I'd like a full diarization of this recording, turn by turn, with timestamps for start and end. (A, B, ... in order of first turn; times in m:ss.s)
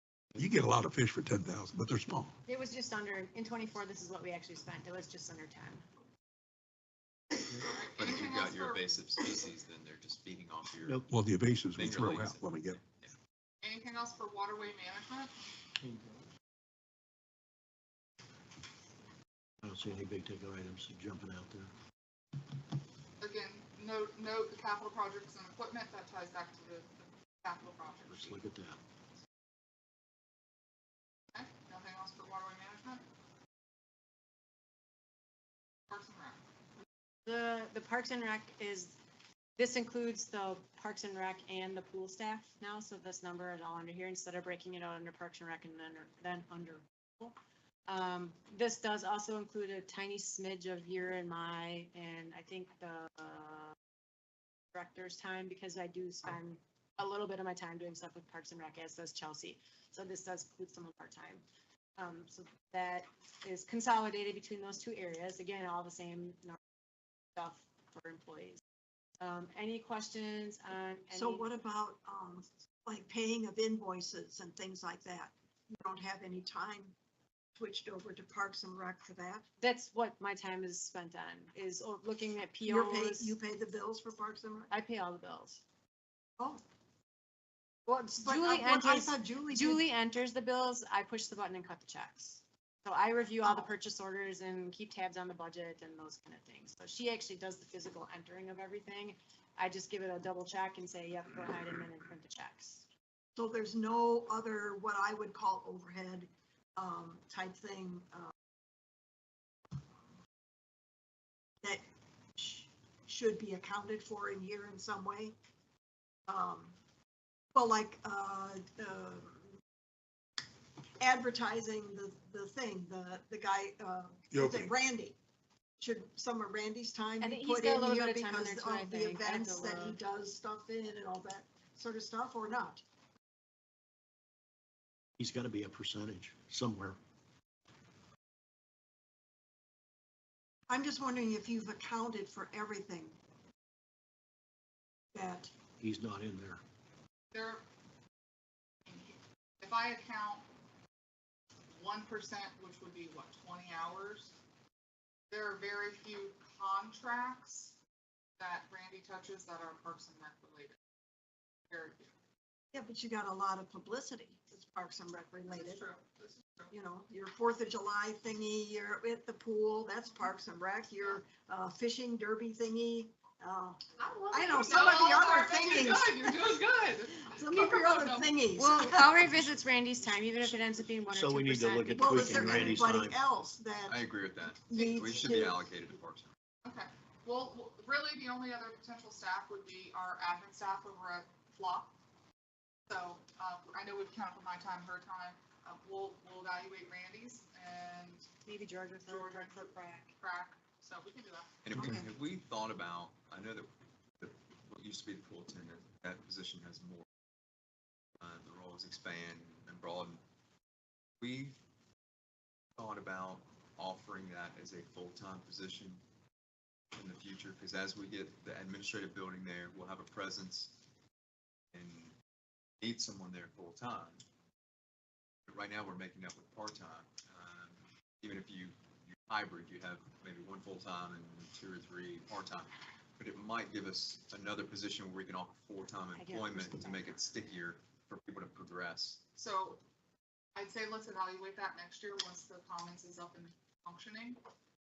0:00.4-0:02.3 A
0:02.4-0:05.8 B
0:07.6-0:09.0 C
0:07.9-0:11.0 D
0:11.1-0:12.8 A
0:11.7-0:13.1 D
0:13.6-0:15.3 C
0:19.6-0:21.7 E
0:23.2-0:28.4 C
0:28.1-0:28.8 E
0:31.3-0:33.0 C
0:35.9-0:36.4 C
0:37.2-0:39.0 B
0:39.6-0:47.4 B
0:47.9-0:53.7 B
0:54.7-1:01.4 B
1:02.0-1:06.6 B
1:07.4-1:08.6 B
1:09.2-1:11.5 B
1:11.1-1:16.9 F
1:17.6-1:19.4 F
1:19.6-1:23.4 B
1:22.6-1:24.7 F
1:24.7-1:25.6 B
1:27.9-1:42.8 B
1:28.2-1:29.8 F
1:33.4-1:33.7 F
1:43.4-1:48.3 F
1:52.4-1:55.3 F
1:56.3-1:56.7 F
1:57.5-1:59.5 F
2:01.0-2:05.2 F
2:04.3-2:04.7 A
2:05.8-2:12.8 F
2:07.2-2:10.0 B
2:15.2-2:17.0 E
2:20.7-2:23.2 F
2:25.1-2:25.5 F
2:25.8-2:26.6 E
2:27.3-2:27.6 C
2:28.8-2:30.4 C
2:31.8-2:34.3 C
2:35.3-2:37.8 C
2:38.4-2:40.8 C
2:41.7-2:42.1 C
2:42.7-2:45.8 F
2:45.5-2:46.7 C
2:46.7-2:56.6 F
2:54.0-2:58.3 C
2:57.4-2:59.5 F
2:58.6-3:02.9 B
3:01.2-3:03.2 E
3:02.0-3:04.0 F
3:03.9-3:06.3 D
3:04.7-3:05.6 F
3:06.6-3:11.9 C
3:12.9-3:18.3 C
3:18.4-3:20.1 B
3:19.0-3:21.6 C
3:21.6-3:23.7 D
3:21.7-3:22.1 F
3:24.2-3:27.0 D
3:28.2-3:30.2 D
3:31.2-3:31.6 D
3:32.8-3:36.0 D
3:36.9-3:40.7 D
3:41.7-3:42.1 D
3:42.8-3:44.2 D
3:45.5-3:59.2 D
3:56.1-3:57.2 B
3:59.4-3:59.8 C
4:00.6-4:04.4 C